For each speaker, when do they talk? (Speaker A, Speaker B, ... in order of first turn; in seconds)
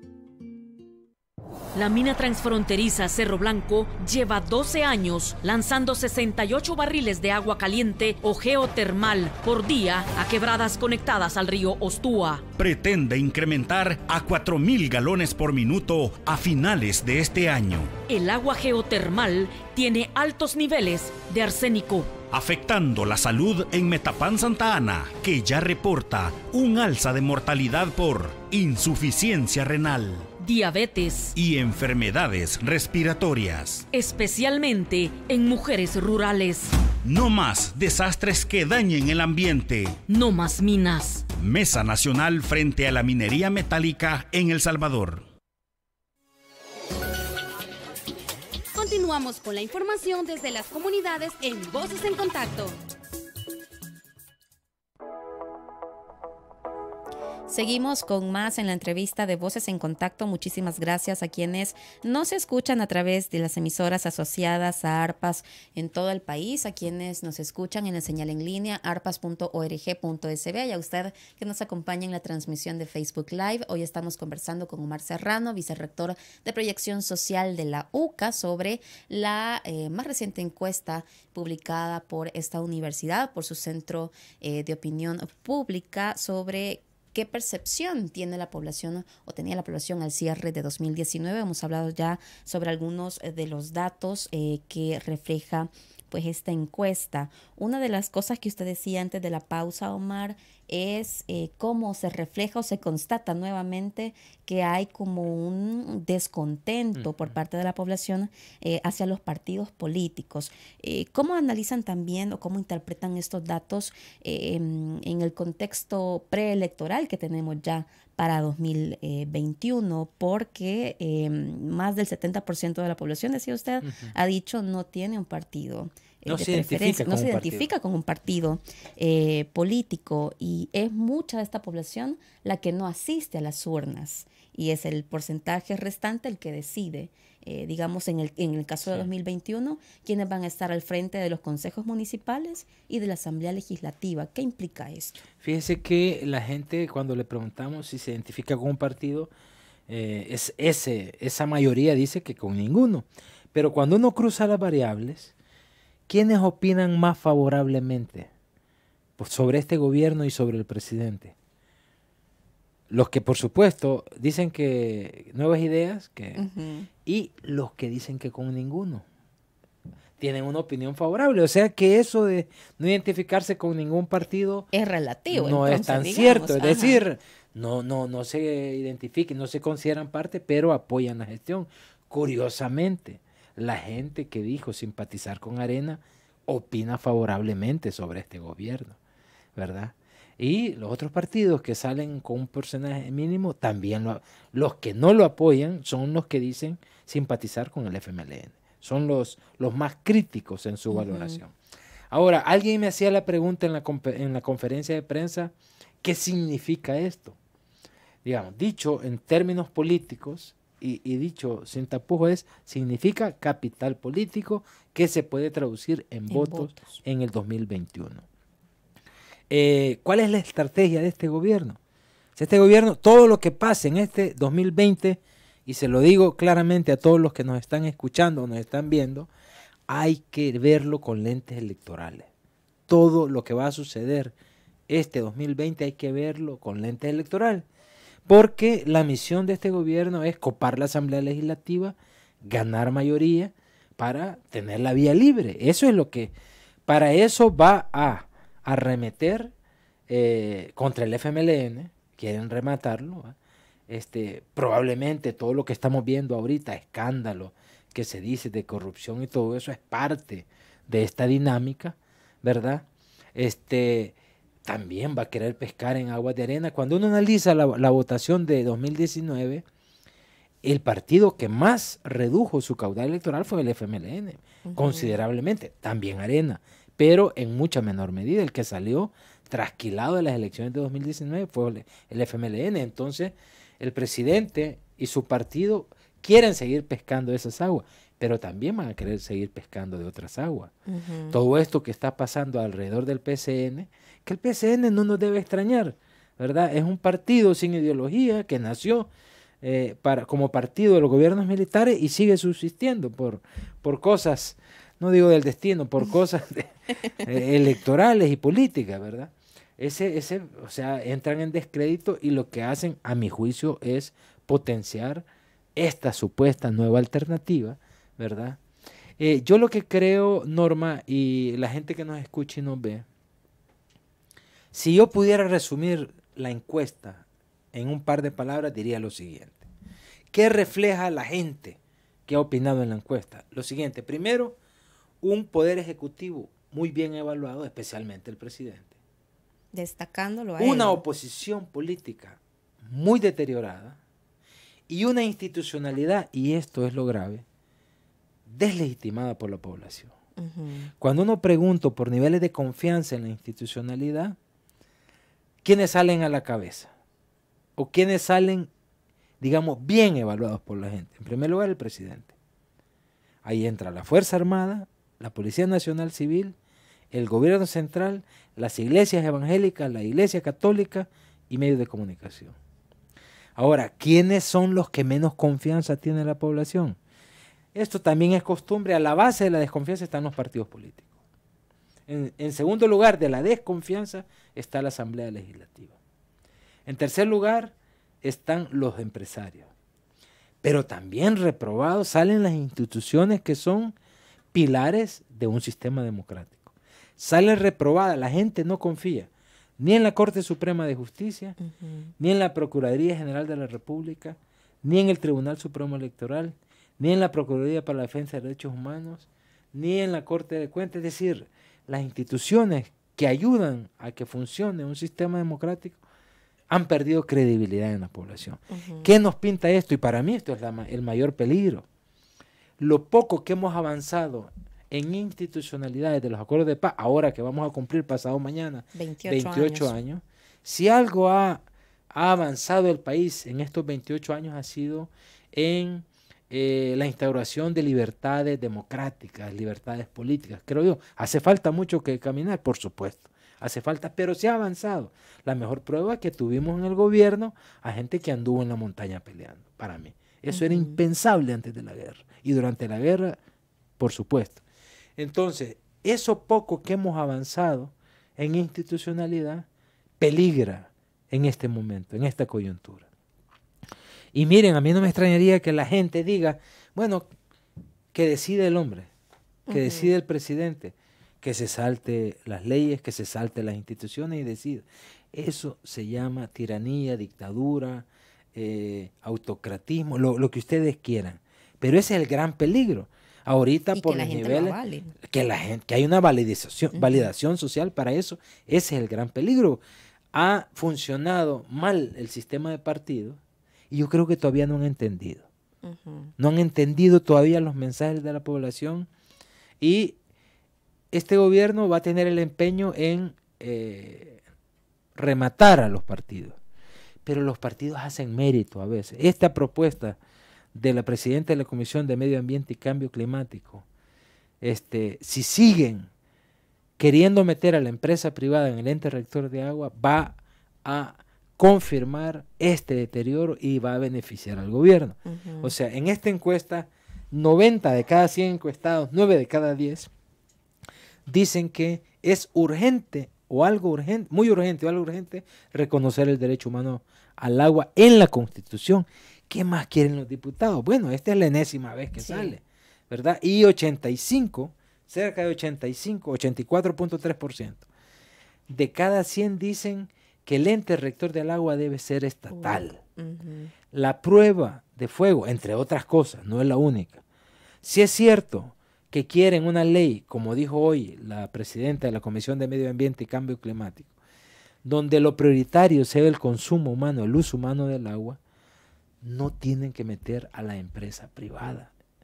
Speaker A: 1.7-12.5, 18.1-22.2, 30.4-31.3, 33.9-36.7, 40.1-41.2
Speaker B: 12.6-17.9, 22.3-30.3, 31.3-33.9, 37.0-40.0, 41.3-45.2
Speaker C: 48.7-52.8
Speaker D: 57.5-145.2, 166.3-166.9, 174.7-177.0, 200.9-201.4, 216.3-217.0, 274.6-275.1, 290.9-291.4, 339.7-341.0, 350.4-350.9, 401.6-402.1, 418.7-419.1, 428.9-430.0, 450.5-451.0, 469.7-470.1, 483.9-485.1, 486.9-487.3, 495.8-496.3, 525.2-525.7, 542.2-542.5, 552.5-553.7
Speaker E: 106.9-107.3, 123.8-124.1, 126.2-127.7, 145.4-149.3, 149.9-155.3, 156.1-158.3, 159.2-161.3, 162.9-166.4, 167.0-169.0, 170.2-174.7, 175.3-189.0, 189.6-201.5, 202.1-207.3, 208.2-218.2, 219.5-221.8, 222.3-229.3, 229.9-232.3, 232.9-234.3, 234.9-237.6, 238.3-246.3, 246.9-249.5, 250.1-253.3, 253.9-269.6, 270.6-290.7, 291.3-299.1, 299.6-318.6, 319.2-323.1, 324.7-329.7, 330.3-334.6, 335.2-338.9, 340.6-344.0, 344.9-347.4, 348.4-350.1, 351.0-354.4, 355.6-356.9, 357.8-358.7, 359.4-362.3, 363.4-366.6, 367.1-372.6, 373.6-377.0, 377.7-381.1, 382.1-385.9, 386.9-389.7, 390.6-393.9, 394.5-401.6, 402.2-416.0, 416.7-421.8, 422.8-453.4, 454.0-454.6, 455.2-459.7, 460.2-463.1, 464.3-467.3, 468.1-469.1, 469.7-489.8, 490.3-493.4, 493.9-495.5, 496.4-499.1, 499.8-500.2, 501.1-504.4, 505.1-506.6, 507.2-510.2, 510.7-513.8, 514.6-516.1, 517.0-530.1, 531.3-547.8, 548.7-553.0, 553.9-557.2, 557.8-564.1, 564.8-568.4, 569.2-571.9